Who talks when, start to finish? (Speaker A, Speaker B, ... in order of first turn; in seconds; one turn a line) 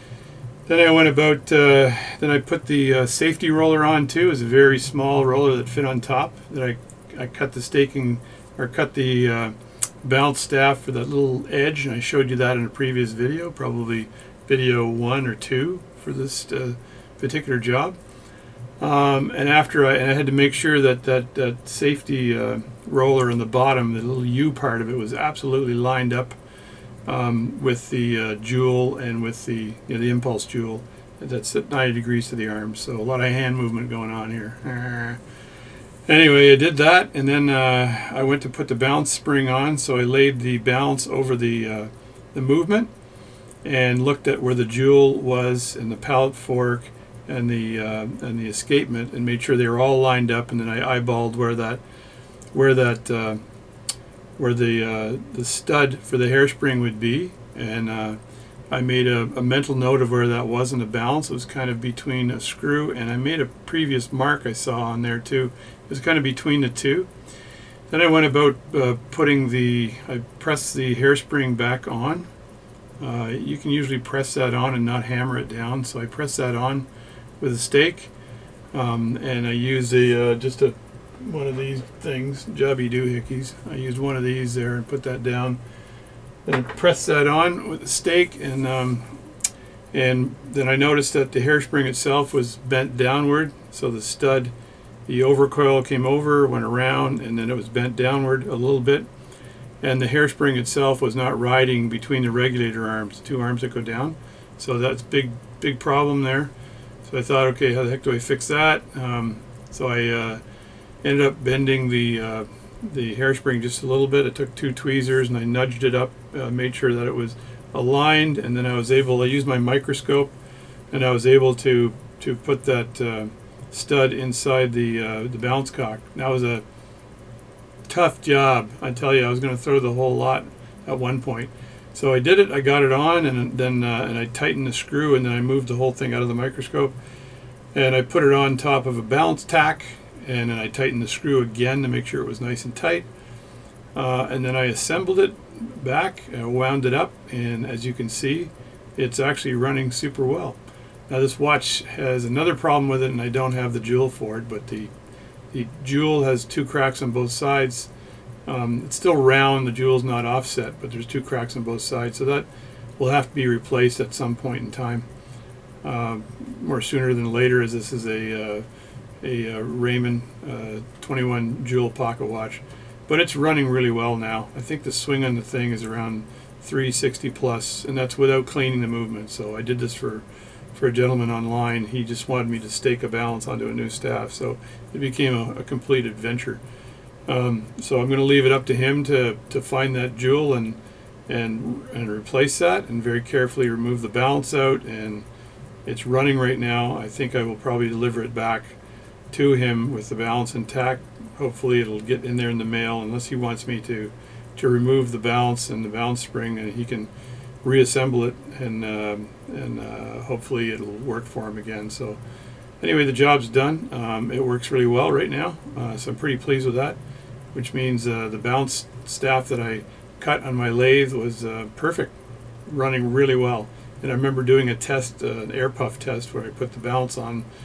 Speaker A: 0.7-18.0
Speaker A: 18.8-26.4
Speaker A: 27.1-35.2
Speaker A: 36.1-42.9
Speaker A: 43.6-51.8
Speaker A: 52.5-53.4
Speaker A: 54.4-58.2
Speaker A: 58.7-67.1
Speaker A: 67.9-72.3
Speaker A: 73.0-76.9
Speaker A: 77.4-78.1
Speaker A: 78.7-85.6
Speaker A: 86.4-89.1
Speaker A: 89.9-94.5
Speaker A: 95.0-99.1
Speaker A: 99.8-106.5
Speaker A: 107.0-110.4
Speaker A: 111.0-120.3
Speaker A: 120.9-126.6
Speaker A: 127.9-136.9
Speaker A: 137.7-143.1
Speaker A: 143.9-154.9
Speaker A: 155.5-157.9
Speaker A: 158.4-165.1
Speaker A: 165.8-168.6
Speaker A: 169.2-186.6
Speaker A: 187.3-195.2
Speaker A: 195.8-198.8
Speaker A: 199.3-207.1
Speaker A: 207.6-212.2
Speaker A: 212.8-217.0
Speaker A: 217.5-222.1
Speaker A: 222.7-227.5